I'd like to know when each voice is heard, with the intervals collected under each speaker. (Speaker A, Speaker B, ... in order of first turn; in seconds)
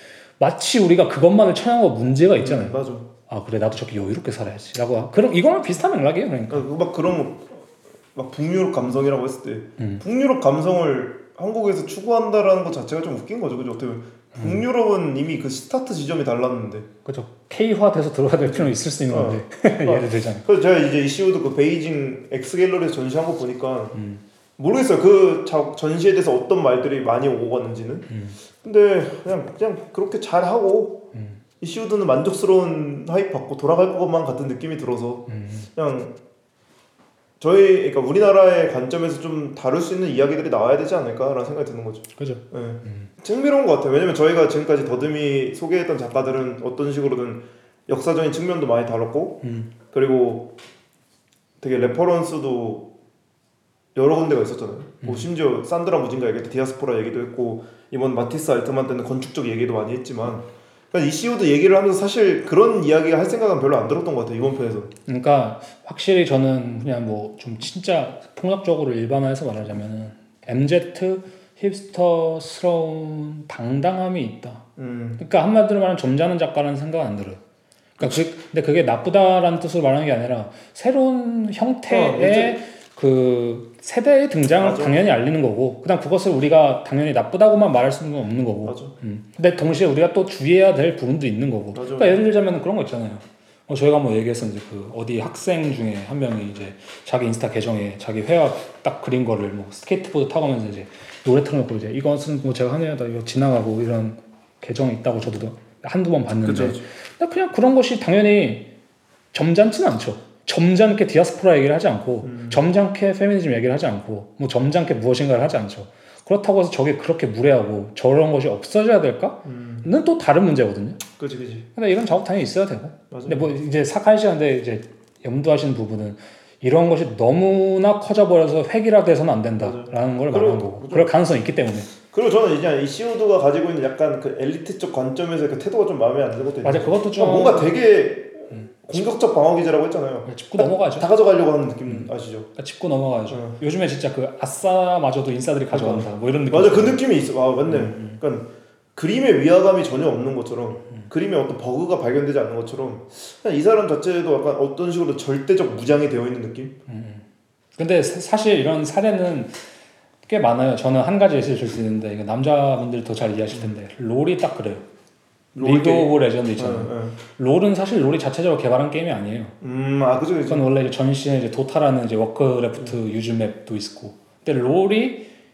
Speaker A: 0.4-6.6, 14.3-14.6, 17.0-20.4, 23.9-24.2, 28.1-28.4, 31.1-31.4, 35.3-35.7, 42.2-43.1, 49.4-49.7, 55.0-55.3, 65.0-74.7, 75.2-77.4, 78.0-108.7, 109.3-121.0, 121.7-131.9, 136.6-137.7, 140.2-141.1, 141.8-147.0, 147.7-148.2, 156.9-157.2, 157.8-159.6, 160.2-164.8, 165.6-169.5, 170.5-175.3
Speaker B: 2.4-3.1, 6.5-16.9, 18.4-24.0, 24.6-31.1, 31.6-36.1, 37.4-50.5, 51.6-52.9, 53.9-64.9, 74.8-75.2, 81.9-82.5, 84.6-85.0, 88.6-88.9, 91.7-92.2, 106.4-106.8, 112.2-112.6, 119.4-119.9, 121.2-121.7, 123.1-123.5, 129.6-131.1, 132.1-142.5, 143.3-143.6, 145.7-156.7, 165.5-167.2, 169.6-170.6